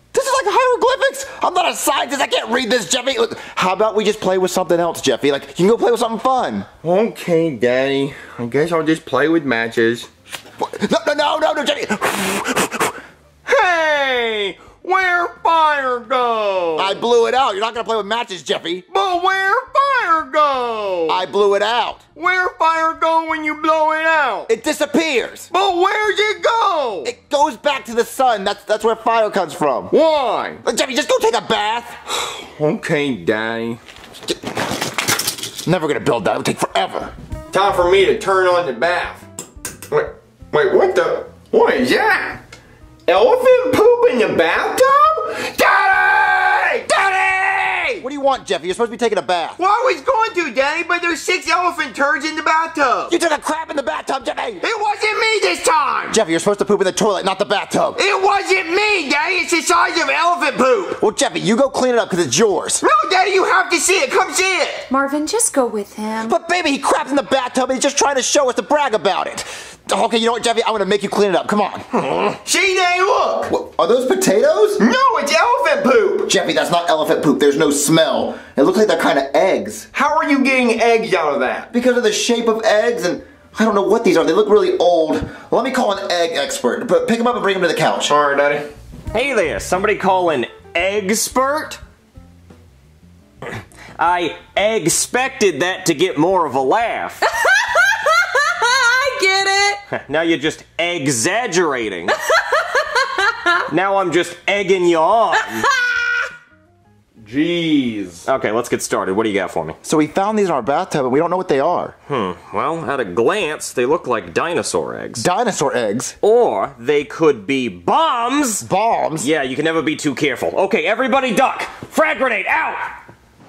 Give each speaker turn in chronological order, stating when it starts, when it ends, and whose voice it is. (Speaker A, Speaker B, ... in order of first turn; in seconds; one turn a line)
Speaker A: 0.1-6.7
Speaker B: 6.8-10.1
Speaker A: 10.6-13.0
Speaker B: 13.4-17.0
Speaker A: 16.8-18.9
Speaker B: 18.9-21.2
Speaker A: 21.1-22.0
Speaker B: 22.1-24.5
Speaker A: 24.5-25.5
Speaker B: 25.5-27.1
Speaker A: 27.0-29.9
Speaker B: 29.9-30.6
Speaker A: 30.6-32.0
Speaker B: 32.3-33.8
Speaker A: 35.6-37.1
Speaker B: 37.5-39.2
Speaker B: 39.9-42.4
Speaker B: 43.0-48.0
Speaker A: 48.0-49.6
Speaker B: 49.6-53.1
Speaker A: 53.1-54.6
Speaker B: 54.6-56.2
Speaker A: 56.1-58.0
Speaker B: 58.0-61.0
Speaker A: 61.0-62.8
Speaker B: 62.8-64.8
Speaker C: 64.9-66.3
Speaker A: 66.2-71.9
Speaker B: 72.0-73.5
Speaker A: 73.5-74.8
Speaker B: 74.8-76.3
Speaker A: 76.3-79.9
Speaker B: 79.9-81.7
Speaker A: 81.7-88.1
Speaker B: 88.0-88.7
Speaker D: 89.1-91.8
Speaker D: 93.5-97.2
Speaker C: 97.2-99.8
Speaker D: 99.9-102.1
Speaker C: 102.1-103.5
Speaker D: 103.7-105.7
Speaker B: 107.2-108.2
Speaker D: 108.2-109.8
Speaker A: 109.8-111.9
Speaker D: 112.1-115.2
Speaker A: 115.2-116.2
Speaker D: 116.2-118.7
Speaker A: 118.6-119.3
Speaker D: 119.2-122.9